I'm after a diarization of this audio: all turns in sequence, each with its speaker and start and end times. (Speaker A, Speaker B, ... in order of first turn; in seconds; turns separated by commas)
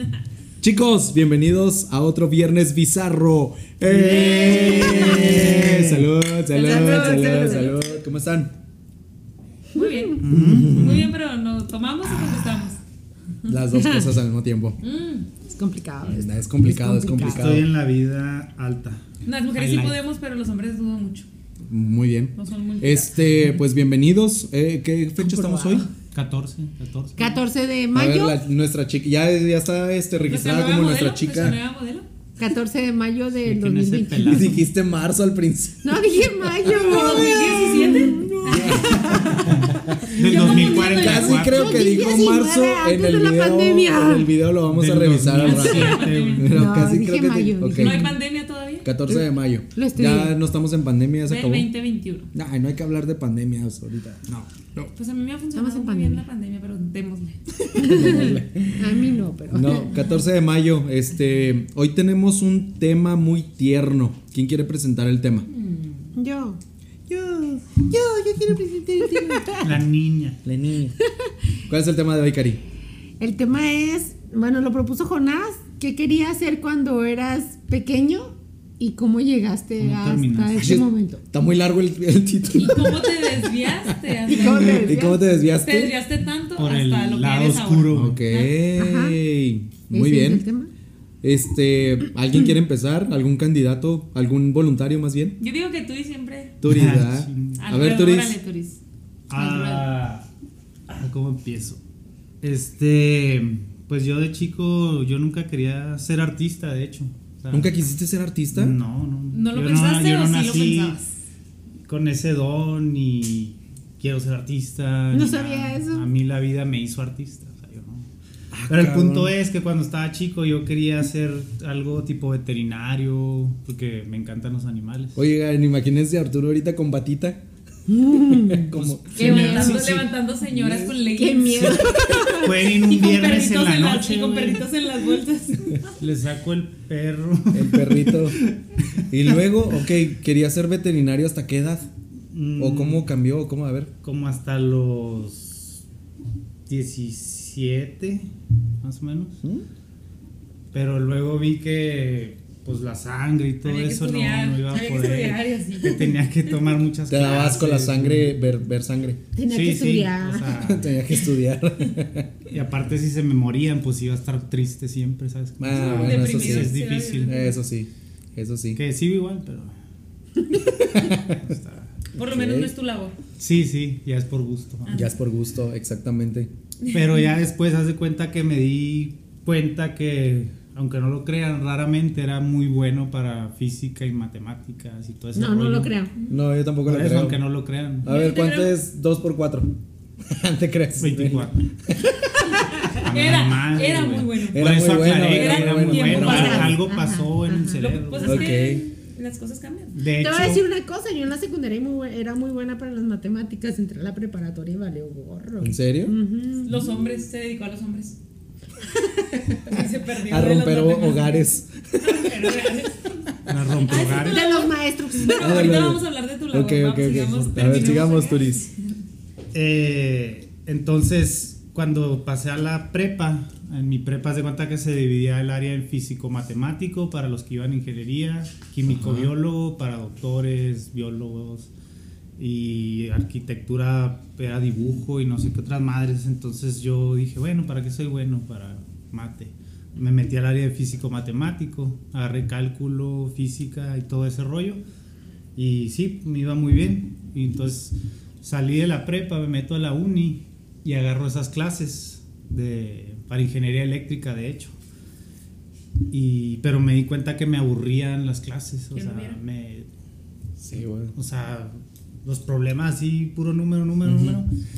Speaker A: 0.6-8.5, Speaker B: 3.8-6.1, Speaker C: 4.1-5.3, Speaker D: 4.1-5.7, Speaker D: 6.5-8.0, Speaker D: 9.8-10.2, Speaker C: 9.8-12.8, Speaker B: 10.2-11.1, Speaker A: 10.3-11.1, Speaker A: 13.5-14.8, Speaker D: 13.7-14.1, Speaker C: 14.8-15.3, Speaker D: 15.4-17.6, Speaker A: 16.1-17.7, Speaker B: 17.2-19.0, Speaker C: 19.2-21.3, Speaker B: 19.6-20.0, Speaker A: 21.7-25.9, Speaker C: 22.4-23.1, Speaker D: 25.2-25.9, Speaker B: 26.1-27.4, Speaker D: 27.2-28.4, Speaker A: 27.9-31.6, Speaker C: 30.3-32.1, Speaker D: 32.4-34.4, Speaker B: 33.4-34.6, Speaker A: 34.2-48.1, Speaker D: 35.8-44.3, Speaker C: 36.7-39.1, Speaker B: 38.9-41.9, Speaker C: 40.2-41.4, Speaker B: 44.6-46.6, Speaker C: 45.4-46.5, Speaker D: 46.5-48.1, Speaker C: 47.7-48.9, Speaker A: 48.8-51.7, Speaker D: 49.1-50.4, Speaker C: 51.3-52.3, Speaker A: 52.3-54.9, Speaker C: 54.9-57.4, Speaker D: 55.5-56.2, Speaker A: 57.6-65.5, Speaker D: 57.8-60.0, Speaker C: 65.5-66.2, Speaker D: 66.2-66.6, Speaker A: 67.1-68.0, Speaker D: 67.9-69.7, Speaker A: 69.1-69.5, Speaker B: 69.6-70.4, Speaker A: 70.4-71.0, Speaker D: 71.0-71.3, Speaker A: 71.7-72.6, Speaker D: 73.2-81.2, Speaker B: 79.8-80.7, Speaker A: 80.5-86.0, Speaker C: 82.5-84.8, Speaker D: 84.3-85.3, Speaker C: 85.6-88.6, Speaker B: 86.6-88.2, Speaker A: 87.9-90.5, Speaker D: 88.8-89.2, Speaker D: 89.9-90.7, Speaker A: 91.2-95.4, Speaker C: 95.4-96.6, Speaker A: 96.6-98.4, Speaker B: 96.6-97.6, Speaker C: 97.6-98.8, Speaker B: 99.3-100.3, Speaker D: 99.5-99.8, Speaker B: 100.9-101.8, Speaker B: 102.4-107.7, Speaker A: 107.5-108.8, Speaker B: 108.5-111.0, Speaker C: 109.3-111.1, Speaker B: 111.9-118.1, Speaker D: 115.1-116.1, Speaker A: 118.5-119.3, Speaker B: 118.7-125.2, Speaker A: 125.2-127.4, Speaker D: 127.9-128.7, Speaker A: 128.3-131.0, Speaker B: 128.8-130.0, Speaker C: 129.2-131.9, Speaker D: 129.2-129.6, Speaker D: 131.0-132.7, Speaker B: 132.3-134.7, Speaker C: 132.8-135.9, Speaker B: 136.0-138.6, Speaker A: 137.5-138.4, Speaker A: 139.1-141.9, Speaker B: 142.3-143.1, Speaker A: 142.6-143.9, Speaker B: 144.0-145.8, Speaker B: 146.7-148.3, Speaker B: 148.8-149.4, Speaker B: 150.7-158.3, Speaker C: 153.6-157.6, Speaker A: 157.1-159.2, Speaker D: 159.3-160.6, Speaker B: 159.5-161.0, Speaker A: 160.6-162.5, Speaker B: 162.5-167.3, Speaker A: 165.6-168.8, Speaker C: 165.7-167.6, Speaker B: 168.8-169.7, Speaker A: 170.5-171.4, Speaker B: 171.0-171.9, Speaker A: 172.2-172.7, Speaker C: 172.2-173.2, Speaker B: 173.4-175.0, Speaker C: 174.9-175.2, Speaker A: 174.9-176.5, Speaker B: 176.9-185.9, Speaker D: 185.3-186.1, Speaker A: 186.3-187.4, Speaker B: 186.9-188.1, Speaker A: 188.0-189.7, Speaker C: 188.1-188.8, Speaker A: 190.2-193.1, Speaker B: 191.0-191.7, Speaker C: 192.6-196.8, Speaker B: 192.9-198.5, Speaker A: 194.5-196.8, Speaker D: 196.8-197.8, Speaker C: 197.8-200.0, Speaker A: 198.2-198.8, Speaker B: 199.9-200.7, Speaker D: 200.2-206.9, Speaker A: 205.6-206.2, Speaker C: 206.6-208.2, Speaker C: 209.6-211.5, Speaker A: 209.6-212.6, Speaker C: 212.0-213.2, Speaker B: 213.5-214.5, Speaker C: 213.8-218.6, Speaker D: 214.2-215.9, Speaker A: 215.3-218.7, Speaker B: 219.5-231.7, Speaker A: 228.9-229.3, Speaker B: 232.4-244.8, Speaker B: 245.6-254.8, Speaker B: 256.1-259.9, Speaker C: 258.9-259.4, Speaker A: 260.6-261.1, Speaker B: 261.1-264.5, Speaker A: 264.1-264.4